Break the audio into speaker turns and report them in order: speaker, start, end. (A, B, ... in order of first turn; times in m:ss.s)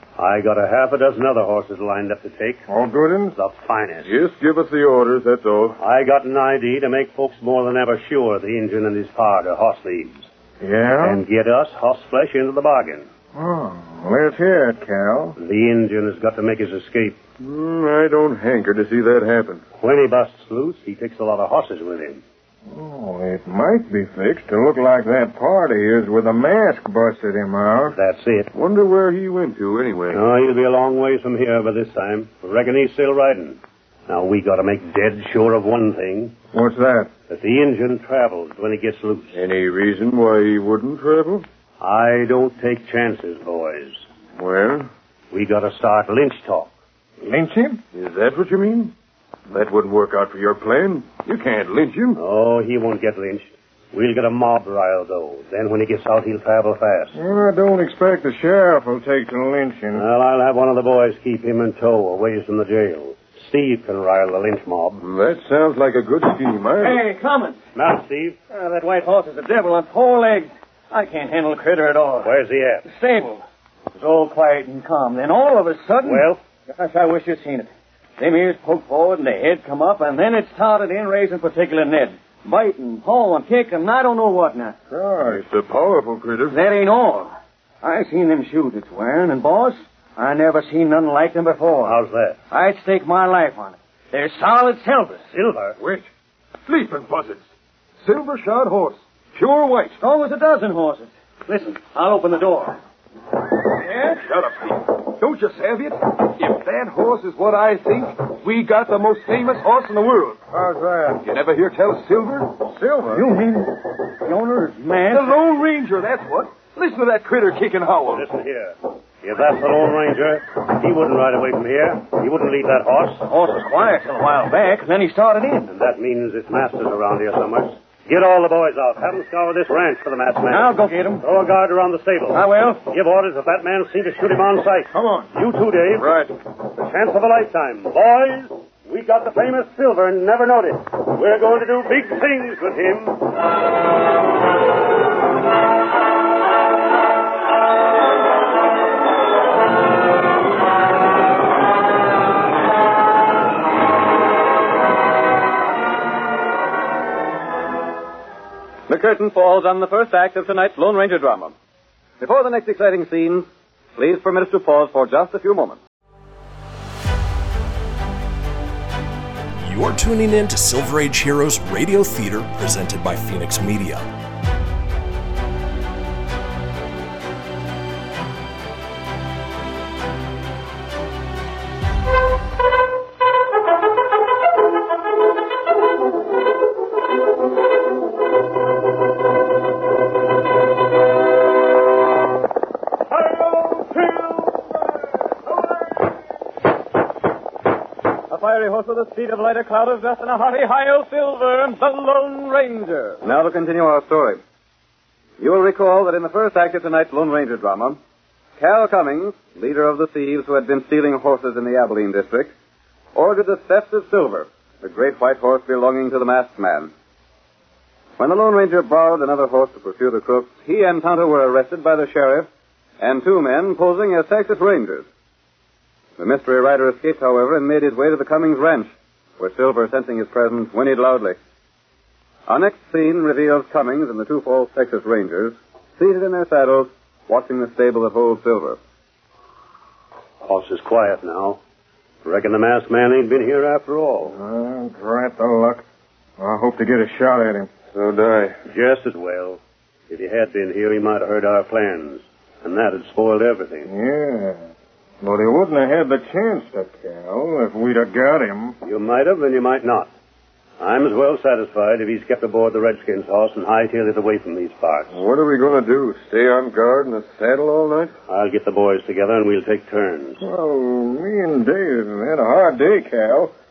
0:00.2-0:02.6 A
0:02.7-0:03.4 B
0:03.4-0:04.1 A
0:04.0-0:05.8 C
0:05.8-0:10.3 A
0:10.6-0:11.2 B
0:11.0-0:13.1 A
0:13.4-0:15.4 B
0:15.4-0:17.2 A
0:17.4-0:19.6 C
0:19.8-0:22.2 A
0:22.7-0:28.0 B
0:27.9-0:28.5 A
0:28.5-0:30.2 C
0:30.1-0:36.4 A
0:36.5-0:37.1 B
0:37.3-0:39.4 A
0:39.3-0:41.4 C
0:41.8-0:44.0 A
0:44.4-0:44.9 C
0:45.3-0:46.7 A
0:47.2-0:47.8 B
0:47.9-0:48.9 C
0:49.5-0:52.2 C
0:52.2-0:57.1 A
0:57.2-1:00.0 B
1:00.0-1:05.0 A
1:05.0-1:07.0 C
1:06.8-1:07.6 D
1:07.8-1:08.4 A
1:08.5-1:12.3 D
1:12.2-1:12.8 A
1:12.9-1:13.4 D
1:14.0-1:24.8 D
1:16.1-1:16.4 A
1:24.9-1:25.4 B
1:25.2-1:26.6 C
1:26.5-1:27.3 D
1:27.8-1:32.0 D
1:31.8-1:32.4 A
1:32.5-1:35.3 D
1:35.3-1:35.8 A
1:35.8-1:36.1 C
1:36.7-1:37.4 C
1:38.0-1:40.0 C
1:40.0-1:42.8 D
1:44.0-1:50.4 C
1:50.5-1:51.2 B
1:51.2-1:52.5 C
1:52.7-1:53.2 B
1:53.1-1:55.4 D
1:55.1-1:58.3 C
1:58.1-2:03.2 A
2:03.2-2:05.7 D
2:05.7-2:16.1 A
2:10.5-2:11.2 D
2:12.3-2:12.9 D
2:16.7-2:23.2 A
2:38.9-2:41.5 E
2:42.2-2:45.8 E
2:49.6-2:54.0 F
3:18.3-3:24.4 E
3:25.4-3:28.0 E
3:28.6-3:32.5 E
3:33.1-3:36.9 E
3:38.2-3:42.5 E
3:43.0-3:45.1 E
3:46.2-3:51.4 E
3:52.5-3:58.8 E
4:00.4-4:01.6 A
4:02.2-4:04.4 A
4:04.2-4:05.8 B
4:06.4-4:07.7 B
4:08.0-4:08.6 C
4:08.7-4:13.9 A
4:13.8-4:14.6 B
4:15.2-4:18.8 B
4:18.8-4:20.1 A
4:20.8-4:25.2 A
4:25.1-4:28.1 C
4:28.3-4:30.4 A
4:30.4-4:33.5 B